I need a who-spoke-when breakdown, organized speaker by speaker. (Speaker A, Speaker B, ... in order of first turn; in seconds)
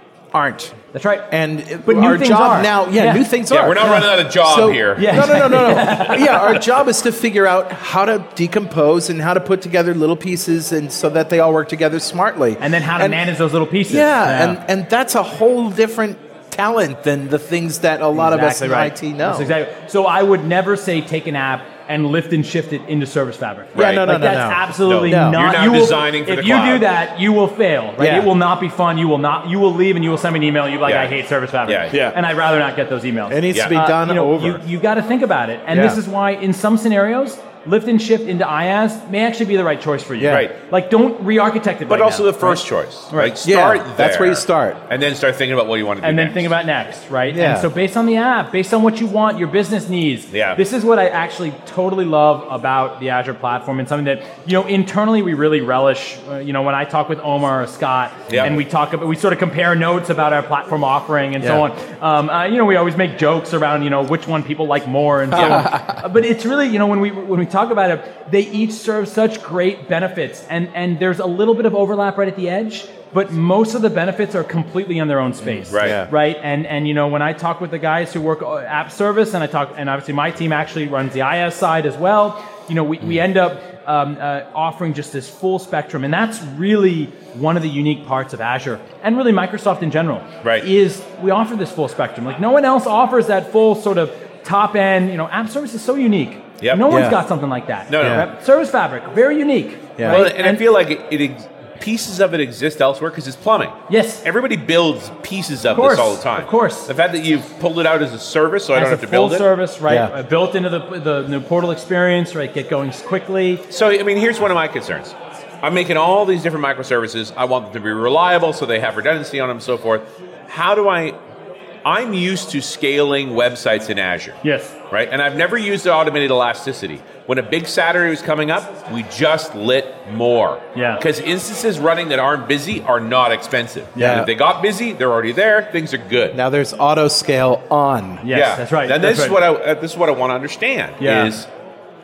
Speaker A: 0.3-0.8, 1.3-13.2, 13.9-19.5, 23.8-25.4, 28.0-28.3, 33.3-34.6, 35.7-36.0, 40.2-40.5, 43.4-44.8, 47.3-47.7, 65.4-66.0, 75.5-76.1, 96.9-97.2, 98.0-98.3, 134.0-134.3, 136.3-138.2
Speaker B: 0.9-1.3, 1.8-3.3, 3.8-4.2, 4.9-6.6, 12.6-14.6, 18.1-43.4, 46.0-100.6, 103.9-104.2, 105.7-106.9, 108.7-113.6, 124.4-124.8, 130.8-131.0, 134.0-134.2, 138.2-139.4, 141.0-141.3
Speaker C: 3.5-6.1, 23.7-24.1, 24.8-26.9, 30.9-31.1, 31.7-32.1, 40.3-40.5, 41.9-46.5, 50.3-50.6, 58.3-58.5, 75.7-76.0, 96.6-96.9, 97.9-98.3, 100.0-109.5, 113.7-121.2, 121.8-136.4, 138.3-141.5